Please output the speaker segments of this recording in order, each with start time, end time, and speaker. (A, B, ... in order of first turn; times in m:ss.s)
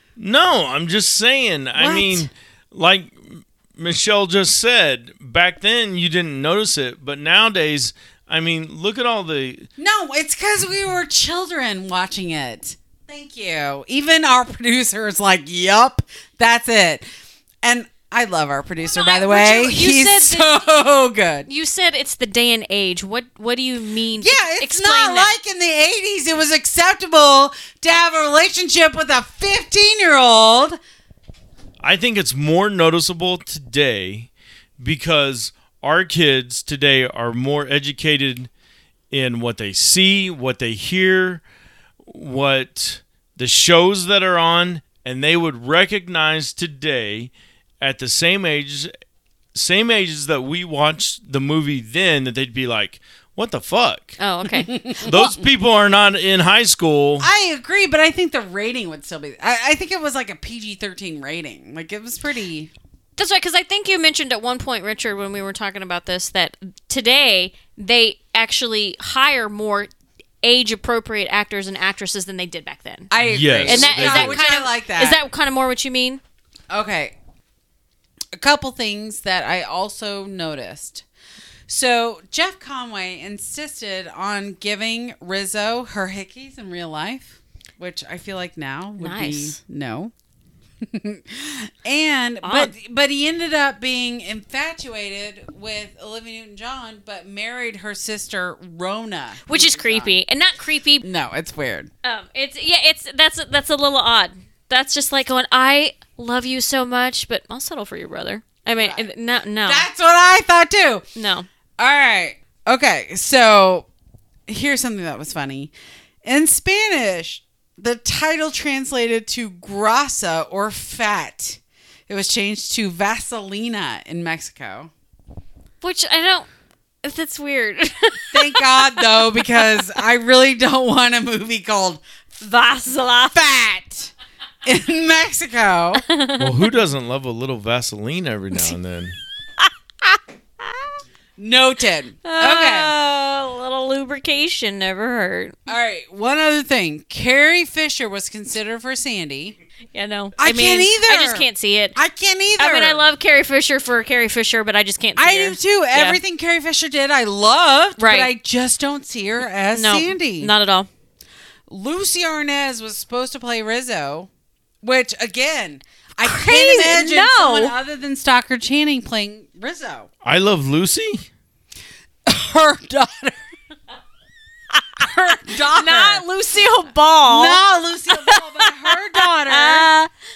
0:00.2-0:09.7 A
0:01.8-0:02.3 B
0:09.8-0:17.1 B
0:17.6-0:21.5 B
0:18.8-0:20.6 C
0:21.5-0:25.4 C
0:24.2-0:30.8 B
0:31.8-0:38.5 A
0:39.1-0:41.4 A
0:42.0-0:48.9 A
0:49.5-0:54.2 A
0:54.2-0:55.3 C
0:54.6-0:55.2 B
0:55.0-0:57.3 A
0:57.2-1:02.7 B
1:03.2-1:09.9 C
1:10.4-1:13.1 C
1:13.1-1:15.2 B
1:13.2-1:14.4 A
1:13.6-1:16.2 C
1:16.7-1:17.2 B
1:18.4-1:21.0 B
1:21.7-1:30.1 B
1:29.0-1:29.6 C
1:30.8-1:40.2 B
1:32.4-1:32.7 C
1:39.5-1:41.0 C
1:41.0-1:41.9 B
1:42.0-1:49.9 C
1:48.8-1:49.0 B
1:49.6-1:51.0 B
1:51.2-1:51.5 C
1:51.8-1:53.9 B
1:54.5-1:55.7 B
1:56.2-2:04.9 B
2:05.8-2:06.5 C
2:07.0-2:09.8 C
2:08.3-2:12.0 B
2:12.4-2:13.4 C
2:13.3-2:14.1 B
2:14.6-2:16.0 B
2:16.0-2:16.6 C
2:16.4-2:19.2 A
2:21.4-2:22.9 B
2:22.2-2:25.7 C
2:25.7-2:29.6 B
2:29.9-2:32.0 C
2:30.4-2:33.0 B
2:32.6-2:36.2 C
2:35.2-2:40.5 B
2:38.0-2:38.3 C
2:39.7-2:40.9 C
2:41.7-2:44.3 B
2:44.8-2:50.1 B
2:46.2-2:47.7 C
2:50.2-2:51.3 A
2:52.3-2:53.4 B
2:55.0-2:56.2 B
2:55.7-2:57.6 C
2:57.3-2:59.9 B
2:58.2-3:00.1 C